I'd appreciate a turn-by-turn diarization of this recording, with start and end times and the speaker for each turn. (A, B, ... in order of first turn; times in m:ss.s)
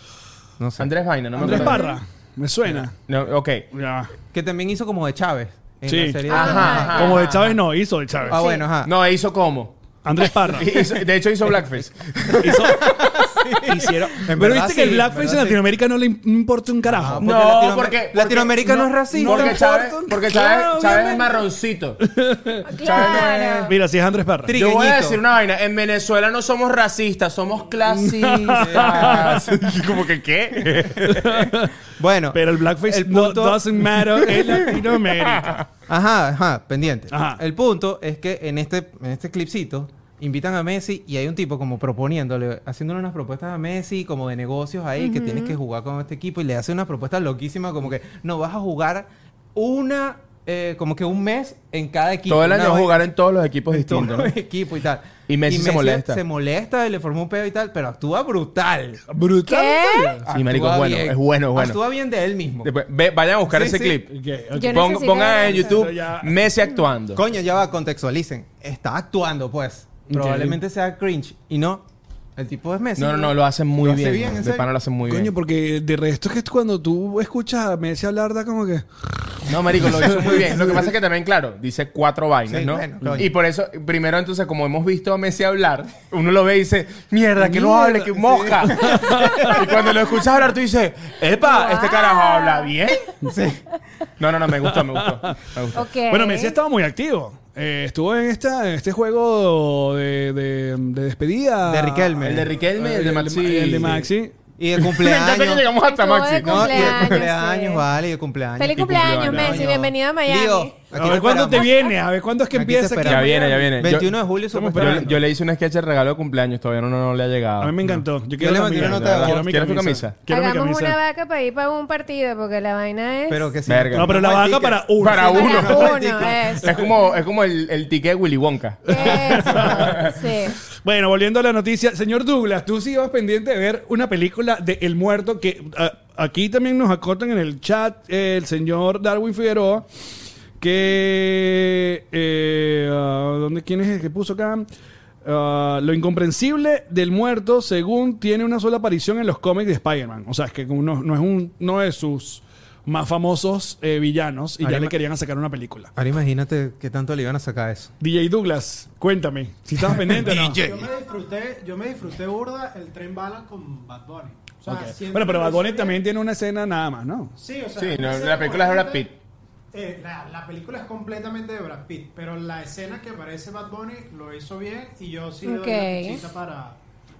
0:00.6-0:00.9 A
0:00.8-0:01.8 B
0:01.4-0:03.0 C
0:01.4-0:01.7 A
0:01.5-0:02.0 D
0:02.8-0:03.7 B
0:03.7-0:04.1 C
0:04.3-0:07.6 A
0:05.9-0:08.5 C
0:06.3-0:07.3 D
0:06.3-0:07.3 B
0:08.3-0:08.9 A
0:08.3-0:08.6 D
0:08.8-0:09.8 B
0:10.0-0:10.9 C
0:10.5-0:12.8 B
0:12.2-0:15.6 A
0:12.4-0:12.9 C
0:13.6-0:17.3 C
0:16.8-0:19.6 A
0:17.2-0:22.0 B
0:18.6-0:21.4 C
0:22.0-0:24.6 C
0:22.6-0:23.8 D
0:22.8-0:23.6 B
0:23.2-0:23.6 A
0:24.5-0:25.2 A
0:24.5-0:31.5 B
0:27.9-0:29.6 C
0:28.6-0:29.6 A
0:31.0-0:31.8 C
0:32.0-0:34.8 A
0:32.3-0:35.6 C
0:35.2-0:35.6 B
0:35.9-0:53.1 A
0:37.1-0:37.4 C
0:45.0-0:45.6 D
0:52.3-0:54.3 B
0:53.7-0:59.0 A
0:55.3-0:56.2 B
0:59.1-1:00.2 C
0:59.5-1:00.2 D
1:00.2-1:02.7 A
1:00.3-1:01.8 B
1:02.6-1:07.2 B
1:03.5-1:04.0 A
1:04.1-1:06.4 C
1:04.5-1:05.8 D
1:07.1-1:11.8 A
1:10.1-1:10.6 C
1:12.4-1:14.7 A
1:13.0-1:15.3 B
1:15.1-1:20.6 C
1:19.5-1:33.1 B
1:22.5-1:23.3 A
1:27.5-1:28.1 C
1:28.1-1:29.7 A
1:28.6-1:29.7 C
1:31.4-1:32.7 D
1:33.2-1:33.6 A
1:34.2-1:35.9 B
1:34.6-1:35.4 C
1:35.7-1:36.6 D
1:36.1-1:42.2 C
1:41.6-1:42.5 A
1:42.2-1:44.1 B
1:42.8-1:44.4 C
1:44.6-1:45.7 A
1:44.8-1:47.3 B
1:45.8-1:47.8 D
1:46.4-1:51.7 A
1:48.6-1:50.8 D
1:48.7-1:49.7 B
1:49.3-1:49.6 C
1:50.9-1:53.5 C
1:51.4-1:51.9 D
1:52.5-1:55.2 A
1:53.0-1:54.2 B
1:54.5-1:55.2 C
1:54.7-1:57.8 B
1:57.6-2:01.0 C
1:57.8-1:59.4 A
1:58.8-2:00.2 B
2:00.3-2:03.5 D
2:03.3-2:06.6 A
2:03.7-2:04.2 B
2:03.9-2:06.8 C
2:05.0-2:06.0 B
2:05.3-2:06.7 D
2:06.6-2:10.2 B
2:08.9-2:10.6 D
2:08.9-2:10.1 C
2:10.8-2:19.9 C
2:20.6-2:24.7 C
2:25.2-2:35.9 C
2:34.6-2:35.0 A
2:36.0-2:37.9 A
2:38.0-2:40.6 C
2:39.8-2:40.9 A
2:40.4-2:46.0 E
2:44.7-2:47.3 C
2:47.4-2:49.1 E
2:47.8-2:49.2 B
2:49.7-2:56.8 E
2:55.4-2:56.2 D